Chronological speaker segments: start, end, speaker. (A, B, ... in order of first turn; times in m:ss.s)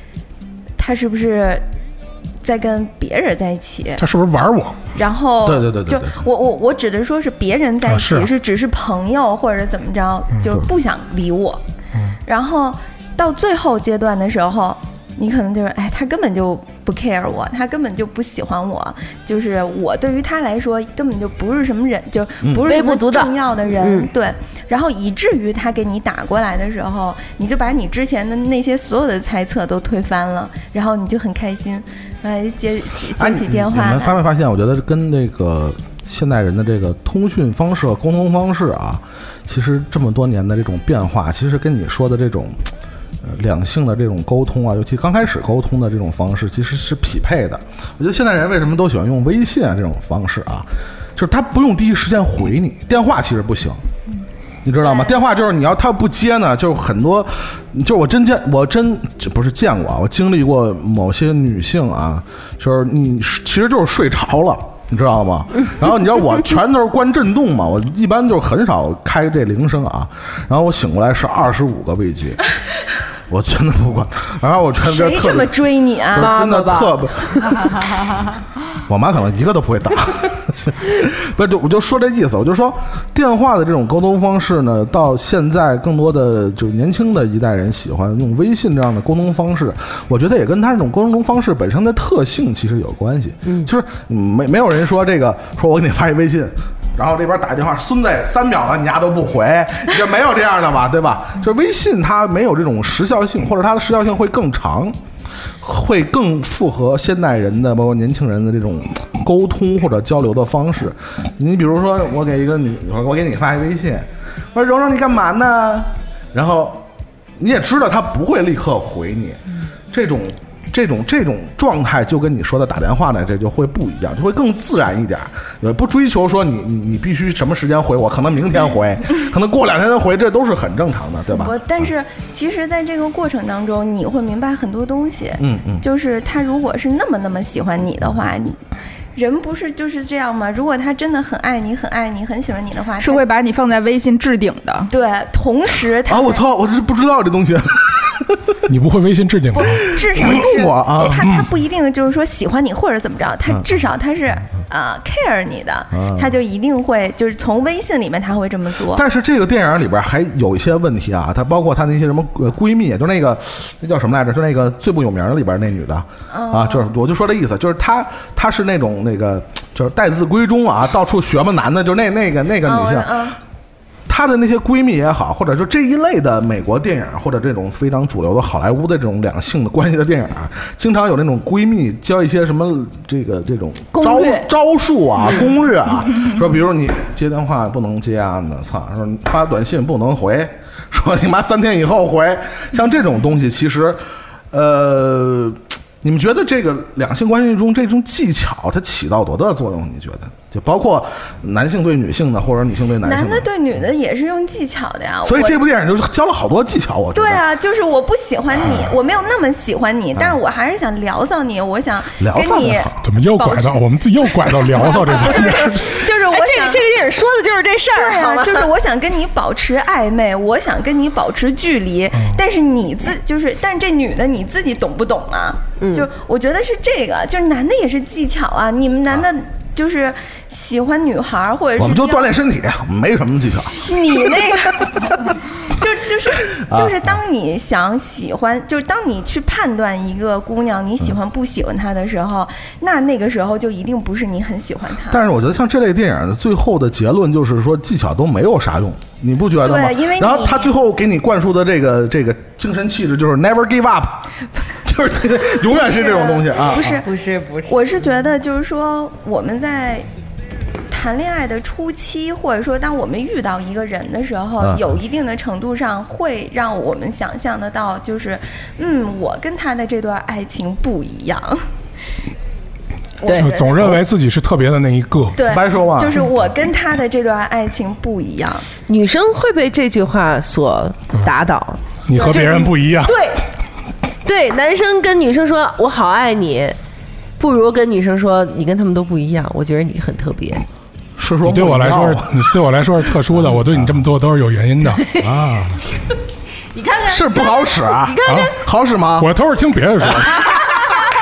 0:00.8-0:01.6 A
0:02.4-0:04.0 A
0:04.0-0:04.8 B
0:05.0-0:11.6 A
0:05.4-0:06.2 C
0:07.8-0:08.3 B
0:12.3-0:34.2 A
0:22.6-0:24.1 D
0:33.2-0:42.7 C
0:43.2-0:53.8 C
0:54.6-1:12.4 C
0:54.8-0:55.2 A
1:13.3-1:15.5 C
1:14.8-1:16.4 A
1:16.1-1:17.6 C
1:16.2-1:17.8 D
1:18.8-1:45.0 C
1:45.6-1:56.8 C
1:57.4-2:11.9 C
2:11.3-2:18.6 A
2:15.4-2:15.8 C
2:19.2-2:23.2 A
2:23.0-2:24.9 E
2:24.9-2:26.4 A
2:26.1-2:28.6 C
2:28.7-2:30.0 B
2:29.5-2:39.0 A
2:29.7-2:31.2 C
2:31.0-2:31.5 B
2:35.9-2:36.3 C
2:38.9-2:53.3 C
2:46.3-2:46.9 A
2:52.6-2:53.4 A
2:54.1-3:23.5 C
3:03.9-3:04.5 D
3:23.0-3:25.6 A
3:25.2-3:27.4 C
3:27.1-3:33.8 A
3:28.6-3:28.9 C
3:32.2-3:33.0 C
3:33.0-3:36.0 B
3:34.6-3:36.8 A
3:35.3-3:38.7 D
3:37.9-3:52.4 A
3:45.8-3:46.1 D
3:51.8-3:54.4 C
3:53.7-4:05.2 A
3:56.7-3:57.2 C
4:05.1-4:14.3 C
4:09.6-4:10.7 A
4:14.8-4:17.0 C
4:15.6-4:17.1 A
4:16.7-4:18.0 D
4:17.6-4:20.1 A
4:20.9-4:31.6 A
4:24.6-4:24.9 C
4:33.2-4:33.8 A
4:33.2-4:33.5 D
4:33.3-4:35.4 B
4:33.7-4:34.0 C
4:35.4-4:38.7 A
4:35.4-4:36.3 C
4:38.9-4:43.4 D
4:42.1-4:43.2 B
4:42.2-4:42.5 A
4:44.2-4:46.8 D
4:47.4-4:50.6 D
4:51.2-4:52.3 C
4:51.4-4:55.0 B
4:55.2-4:55.8 C
4:56.8-4:58.5 D
4:57.0-4:59.3 C
4:58.3-4:58.6 B
4:59.2-5:00.5 B
5:00.0-5:00.3 C